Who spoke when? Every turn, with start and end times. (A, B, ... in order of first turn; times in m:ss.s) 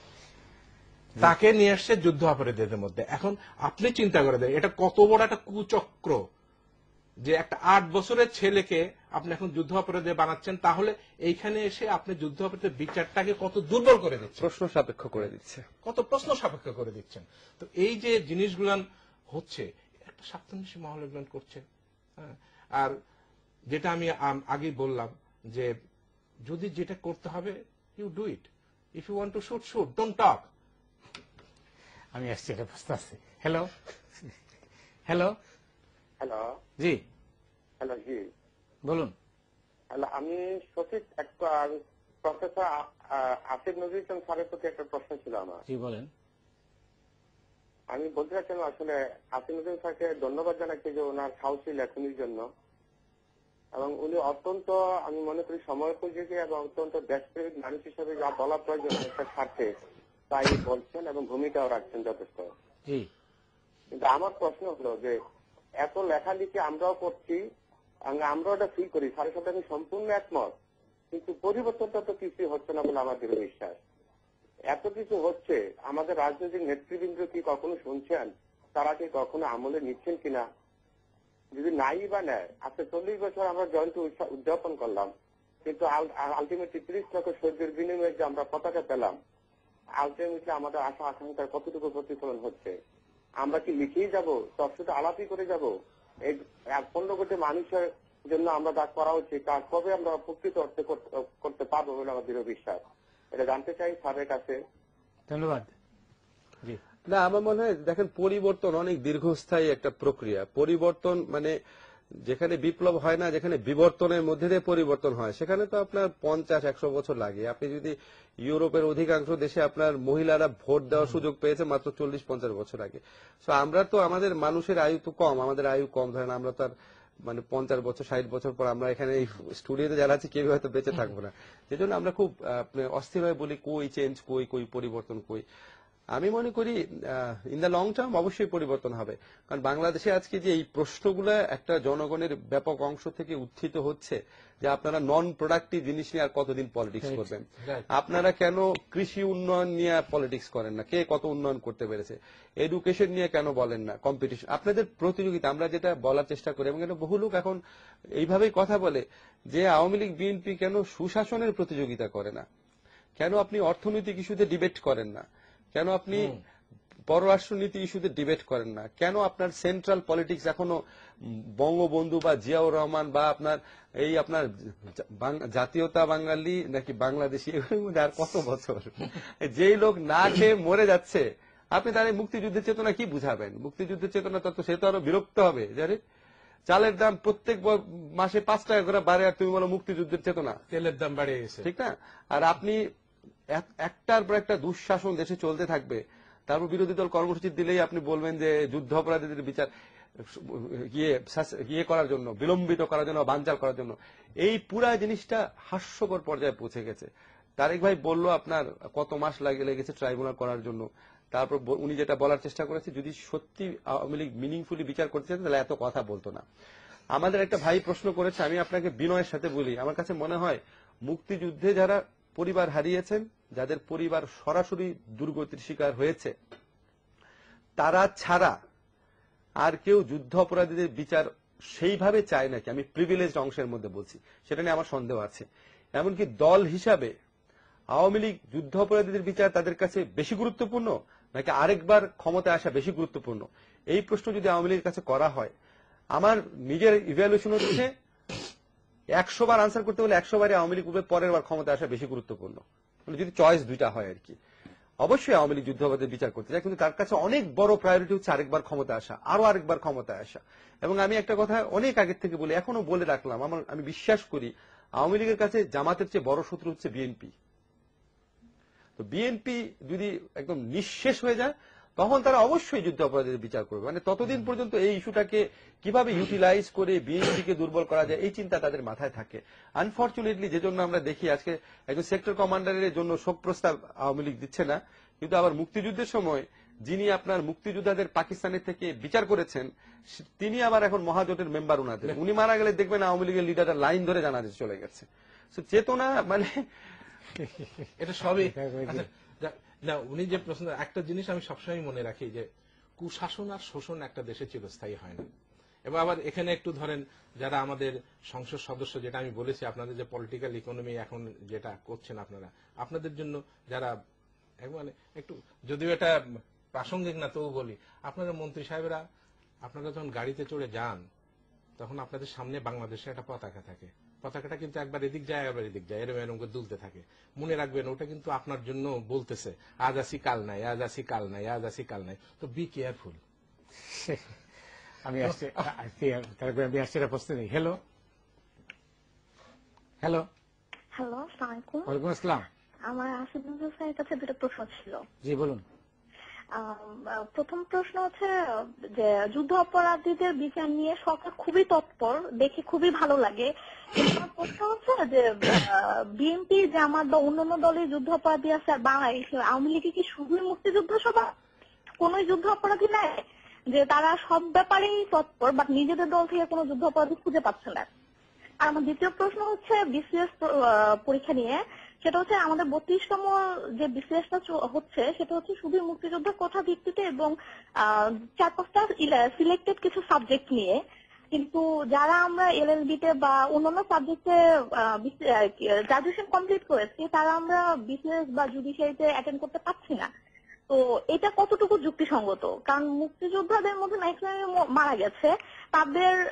0:01.2-0:06.2 A
0:07.2-0:14.4 A
0:14.4-0:15.7 B
0:15.8-0:21.6 A
0:22.2-0:23.0 A
0:23.7-0:25.7 A
0:26.5-0:30.4 A
0:32.1-0:34.4 C
0:35.1-0:35.4 C
0:36.2-0:36.5 D
0:37.8-0:38.2 D
0:38.8-0:39.1 C
0:39.9-0:45.6 D
0:45.7-0:46.1 C
0:47.9-0:52.5 D
0:53.8-0:59.7 D
1:00.3-1:02.5 D
1:03.9-1:05.2 D
1:05.8-1:07.4 D
1:08.1-1:10.5 D
1:11.1-1:13.8 D
1:14.7-1:20.4 D
1:21.5-1:25.1 D
1:25.6-1:29.2 D
1:30.0-1:32.8 D
1:33.4-1:35.7 D
1:36.3-1:42.8 D
1:43.3-1:44.6 D
1:45.3-1:45.7 C
1:47.1-1:51.6 B
1:52.2-2:06.7 B
2:07.3-2:15.4 B
2:16.2-2:37.6 B
2:38.2-2:42.4 B
2:43.2-2:46.4 B
2:46.1-2:46.4 A
2:47.1-2:50.8 B
2:51.6-3:06.0 B
3:06.7-3:10.6 B
3:10.7-3:11.7 A
3:11.6-3:12.8 B
3:13.5-3:19.7 B
3:20.3-3:27.1 B
3:27.6-3:36.4 B
3:37.2-3:46.3 B
3:47.8-3:48.5 B
3:49.6-3:55.5 B
3:56.0-3:57.1 B
3:58.0-4:05.5 B
4:06.2-4:07.9 B
4:09.2-4:14.4 B
4:15.0-4:27.3 B
4:29.0-4:56.6 B
4:57.4-4:57.9 C
4:58.0-5:02.5 A
4:58.5-4:59.0 C
5:03.0-5:05.3 A
5:05.9-5:13.9 A
5:14.6-5:19.0 A
5:19.6-5:21.0 A
5:21.8-5:33.2 A
5:33.8-5:34.2 C
5:35.0-5:37.8 C
5:40.0-5:40.3 C
5:41.0-5:41.9 E
5:41.9-5:42.5 C
5:42.9-5:45.0 E
5:45.2-5:45.6 C
5:46.6-6:01.3 E
6:02.0-6:07.9 E
6:08.6-6:20.8 E
6:21.3-6:30.1 E
6:30.7-6:36.2 E